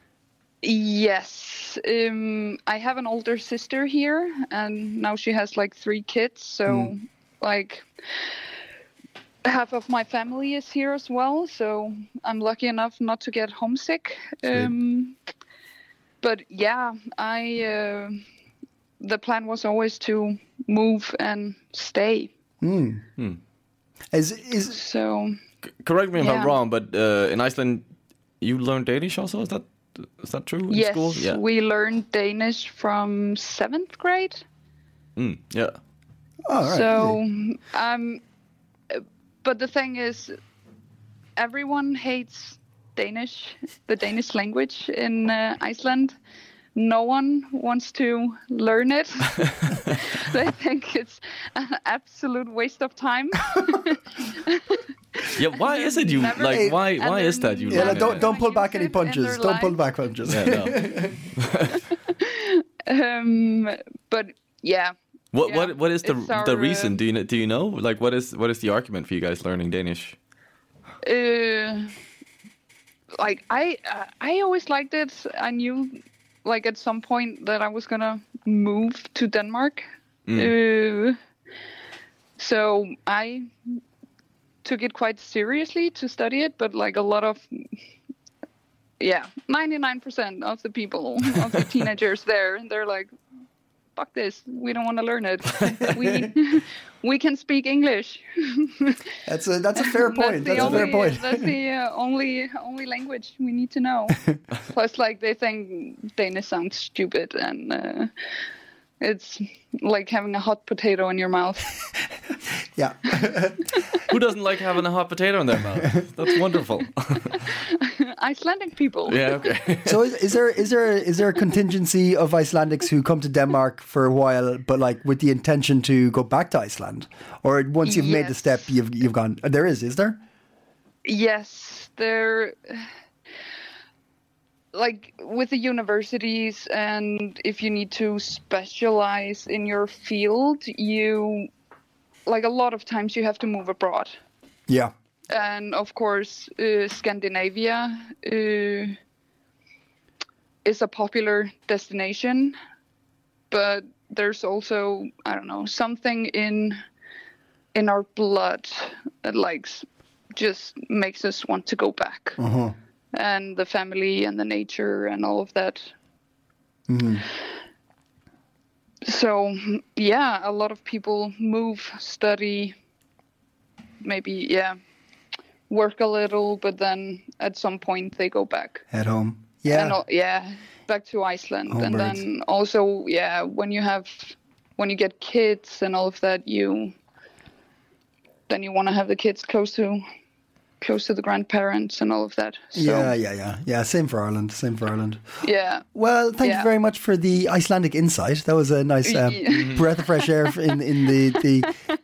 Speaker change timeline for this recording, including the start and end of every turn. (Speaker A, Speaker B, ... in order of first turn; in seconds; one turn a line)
Speaker A: 0.6-8.3
Speaker B: 6.7-6.9
Speaker A: 9.4-15.2
Speaker A: 16.2-18.2
Speaker A: 19.0-22.3
Speaker B: 22.6-23.0
Speaker B: 24.1-24.8
Speaker A: 24.7-25.4
Speaker C: 25.8-27.9
Speaker A: 26.2-26.6
Speaker C: 28.4-31.4
Speaker A: 30.7-34.4
Speaker C: 35.2-35.8
Speaker B: 36.5-37.2
Speaker A: 36.6-38.2
Speaker A: 38.9-40.3
Speaker A: 41.4-46.1
Speaker A: 46.7-59.8
Speaker C: 55.4-58.3
Speaker B: 56.5-56.8
Speaker B: 57.7-61.2
Speaker C: 60.3-60.8
Speaker C: 61.3-61.8
Speaker A: 61.7-67.0
Speaker C: 65.3-70.2
Speaker A: 71.0-71.9
Speaker A: 73.2-81.2
Speaker A: 82.4-83.5
Speaker A: 84.6-87.7
Speaker A: 89.0-93.1
Speaker A: 93.9-99.1
Speaker B: 99.2-101.5
Speaker A: 99.8-108.1
Speaker C: 100.5-100.9
Speaker A: 109.0-111.8
Speaker B: 112.8-113.7
Speaker A: 113.7-114.0
Speaker C: 114.1-117.5
Speaker A: 117.3-119.3
Speaker C: 119.1-120.0
Speaker B: 119.8-130.2
Speaker A: 127.8-128.7
Speaker A: 131.0-132.9
Speaker A: 134.7-141.5
Speaker A: 142.2-144.1
Speaker A: 145.3-148.9
Speaker A: 150.6-152.6
Speaker A: 153.5-156.8
Speaker A: 157.7-162.4
Speaker B: 162.4-162.8
Speaker A: 163.1-165.9
Speaker B: 166.9-167.2
Speaker A: 169.0-172.7
Speaker A: 174.0-174.8
Speaker A: 175.7-178.8
Speaker B: 178.9-180.0
Speaker A: 179.7-186.9
Speaker B: 181.7-182.2
Speaker A: 188.5-190.0
Speaker A: 190.8-193.1
Speaker B: 192.7-195.2
Speaker A: 195.4-195.8
Speaker B: 195.9-201.7
Speaker A: 196.4-196.7
Speaker A: 199.0-201.7
Speaker C: 199.5-199.8